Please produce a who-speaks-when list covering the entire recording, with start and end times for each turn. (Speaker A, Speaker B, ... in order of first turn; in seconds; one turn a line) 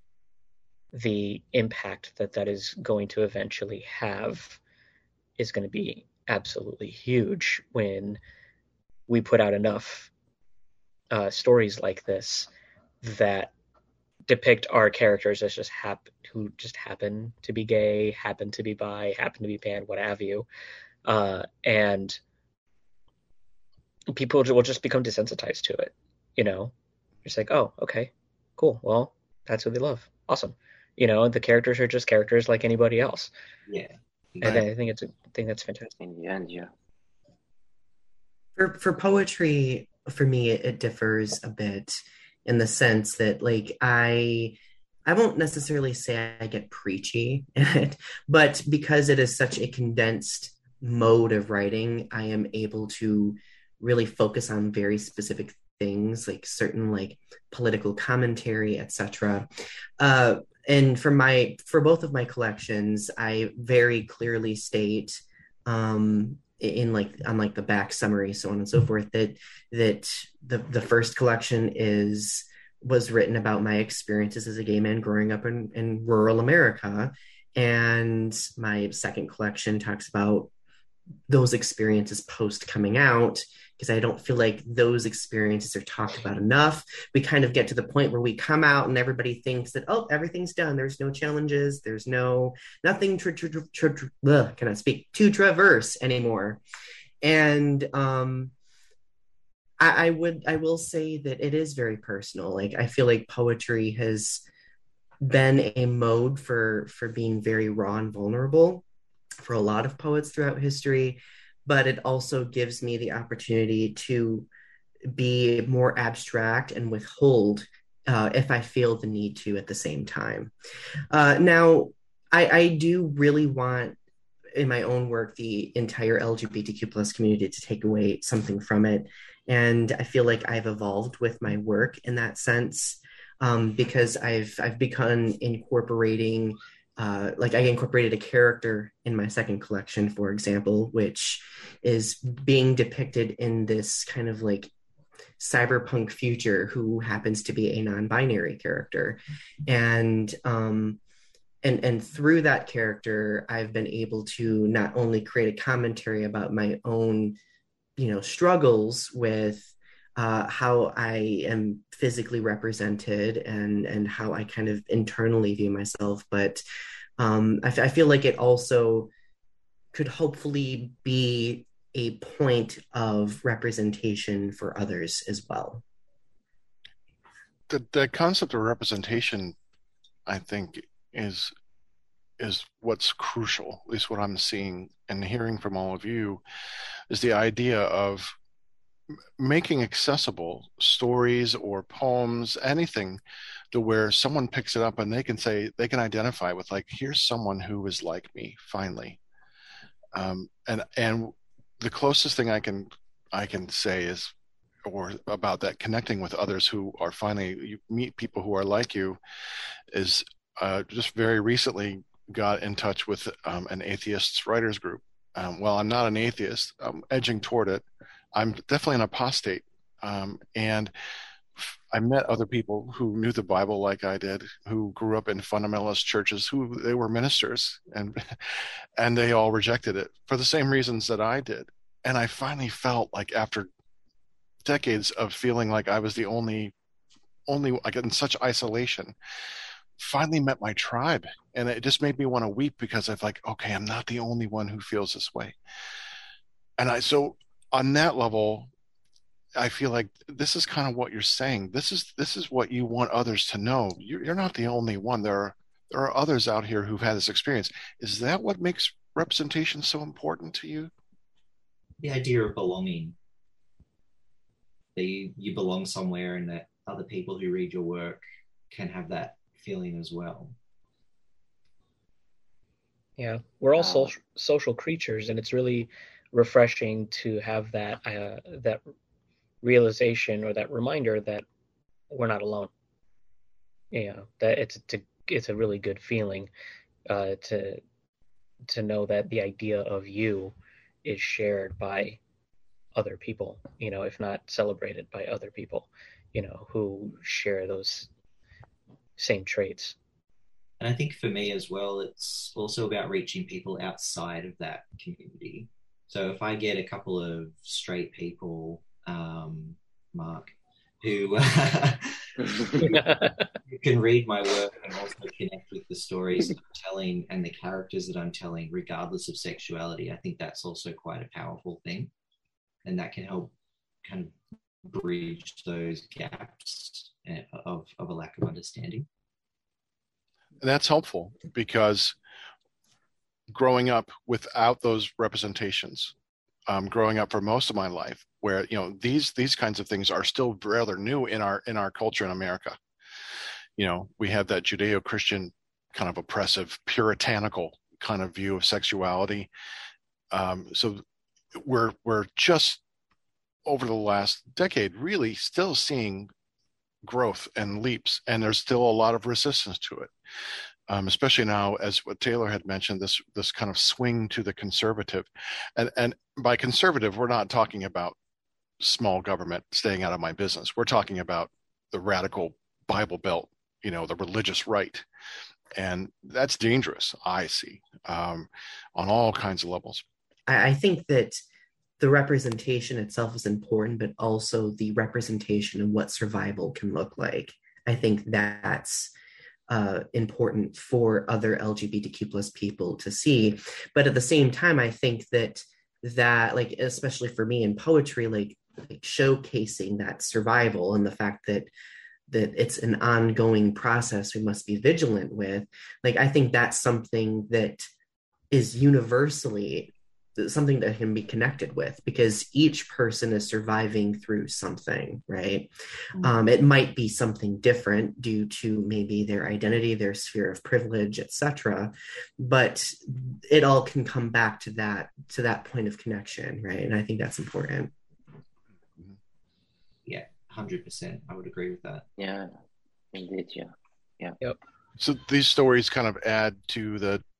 Speaker A: 0.9-4.6
Speaker A: 5.4-8.2
Speaker A: 9.1-10.1
Speaker A: 11.1-12.5
Speaker A: 13.0-13.5
Speaker A: 14.3-20.5
Speaker A: 21.1-22.2
Speaker A: 24.1-26.7
Speaker A: 27.2-33.3
Speaker B: 33.7-34.7
Speaker A: 34.4-35.9
Speaker C: 36.0-36.7
Speaker D: 38.6-59.5
Speaker D: 60.0-80.5
Speaker D: 81.3-96.6
Speaker D: 97.2-98.5
Speaker D: 99.8-104.5
Speaker D: 105.2-108.8
Speaker D: 109.4-114.5
Speaker D: 115.1-120.5
Speaker D: 121.1-124.0
Speaker D: 124.5-144.7
Speaker D: 145.4-151.0
Speaker D: 151.6-157.4
Speaker D: 158.0-166.6
Speaker D: 167.2-169.1
Speaker D: 169.9-175.8
Speaker E: 177.7-179.6
Speaker E: 180.3-181.5
Speaker E: 182.4-186.4
Speaker E: 187.1-188.3
Speaker E: 189.4-193.2
Speaker E: 193.7-199.2
Speaker E: 200.1-204.3
Speaker E: 204.8-209.2
Speaker E: 209.9-220.9
Speaker E: 221.6-233.7
Speaker E: 234.7-236.7
Speaker E: 237.5-239.2
Speaker E: 240.0-245.6
Speaker E: 246.8-248.7
Speaker E: 249.6-260.9
Speaker B: 262.0-263.2
Speaker B: 265.0-270.6
Speaker A: 273.2-278.8
Speaker C: 273.8-274.1
Speaker A: 279.6-281.4
Speaker A: 282.1-282.7
Speaker A: 283.9-286.5
Speaker A: 287.1-287.8
Speaker A: 288.7-292.2
Speaker A: 292.9-298.1
Speaker A: 299.2-300.0
Speaker B: 300.8-313.1
Speaker A: 312.8-313.4
Speaker B: 313.7-322.1
Speaker B: 322.8-323.5
Speaker B: 324.0-329.1
Speaker E: 330.6-332.2
Speaker E: 333.5-336.1
Speaker E: 336.7-342.8
Speaker E: 343.8-349.5
Speaker E: 350.3-351.0
Speaker E: 351.6-352.8
Speaker E: 353.6-356.3
Speaker E: 357.0-360.1
Speaker E: 360.9-368.2
Speaker E: 368.8-375.1
Speaker E: 375.8-380.0
Speaker D: 380.5-381.4
Speaker D: 382.0-389.1
Speaker D: 389.7-401.7
Speaker D: 402.3-407.9
Speaker D: 408.5-427.9
Speaker B: 430.1-432.1
Speaker C: 432.2-432.5
Speaker C: 433.1-434.4
Speaker E: 435.0-437.2